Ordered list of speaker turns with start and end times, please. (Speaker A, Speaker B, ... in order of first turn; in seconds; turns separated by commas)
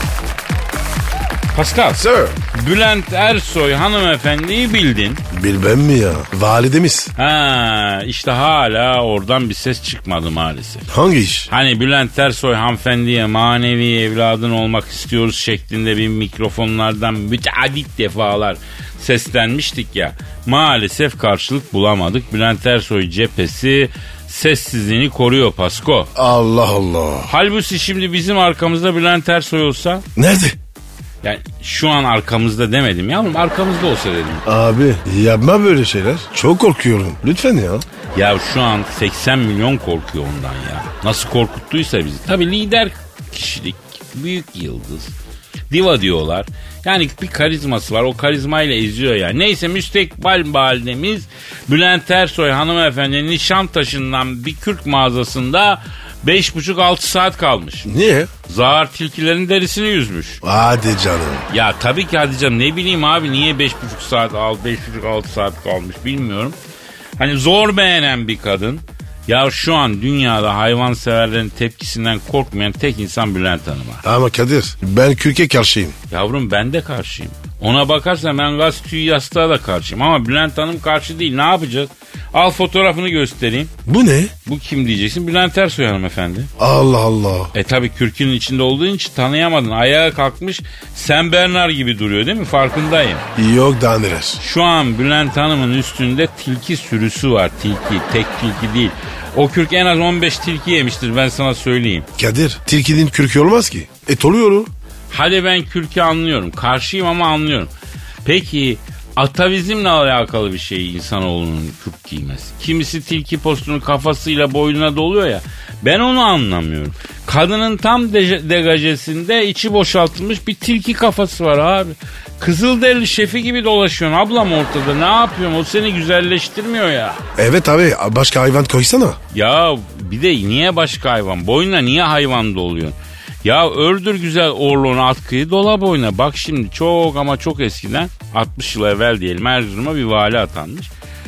Speaker A: 1.5-5.2, Speaker B: 2.0-2.3, Speaker B: 5.3-7.1, Speaker A: 7.2-10.9, Speaker B: 10.9-11.5, Speaker A: 11.5-26.1, Speaker B: 26.1-27.3, Speaker A: 27.3-30.0, Speaker B: 30.2-30.6, Speaker A: 31.2-34.4, Speaker B: 34.5-37.9, Speaker A: 38.1-45.1, Speaker A: 45.7-57.9, Speaker B: 57.8-58.3, Speaker A: 58.5-60.4, Speaker B: 60.4-61.5, Speaker A: 61.5-66.6, Speaker A: 67.2-74.0, Speaker B: 74.0-75.9, Speaker A: 76.1-83.7, Speaker B: 83.9-84.3, Speaker A: 84.5-86.5, Speaker B: 86.6-87.5, Speaker A: 87.5-93.2, Speaker B: 93.4-94.4, Speaker A: 94.4-102.1, Speaker B: 102.2-104.7, Speaker A: 105.1-107.7, Speaker A: 108.2-127.2, Speaker B: 127.4-129.2, Speaker A: 129.3-140.9